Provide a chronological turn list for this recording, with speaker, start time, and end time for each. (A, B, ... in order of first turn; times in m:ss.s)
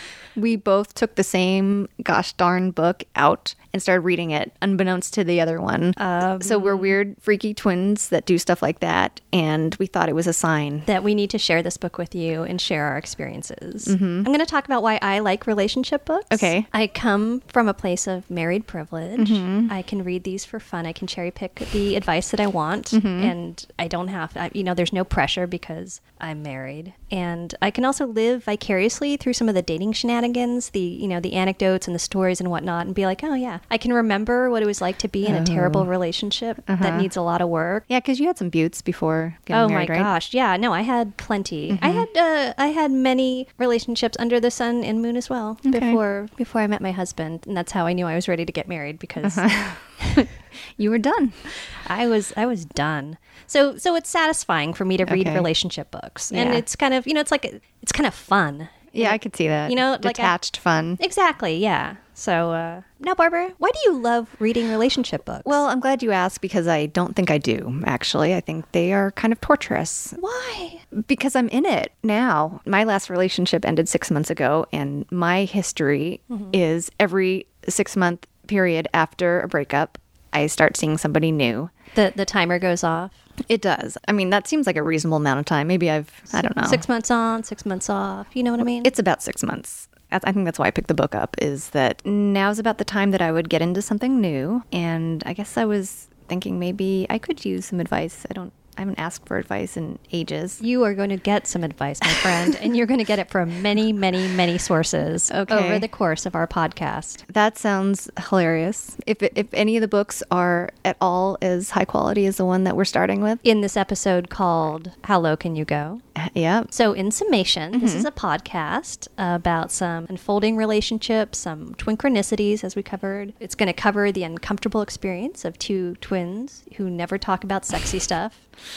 0:00.3-0:10.9 A
0:06.0-0:07.0 B
0:10.8-0:37.8 B
0:13.8-0:14.3 A
0:16.3-0:16.7 A
0:19.2-0:19.7 A
0:22.9-0:23.3 A
0:35.2-0:35.9 A
0:36.7-0:37.1 A
0:37.9-0:40.1 A
0:39.5-0:50.3 B
0:41.7-0:42.1 A
0:45.6-0:46.0 A
0:49.2-0:51.5 A
0:51.8-1:00.3 B
0:55.0-0:55.5 A
0:56.3-0:56.6 A
0:58.9-1:01.0 A
1:01.0-1:05.6 B
1:05.4-1:10.2 A
1:10.2-1:10.8 B
1:10.9-1:21.7 A
1:21.9-1:23.2 B
1:23.5-1:26.8 A
1:26.3-1:28.9 B
1:28.6-1:40.6 A
1:40.6-1:47.2 B
1:45.3-1:45.9 A
1:47.3-1:53.4 A
1:53.4-1:56.0 B
1:56.2-1:56.7 A
1:56.7-2:08.4 B
1:57.7-1:58.1 A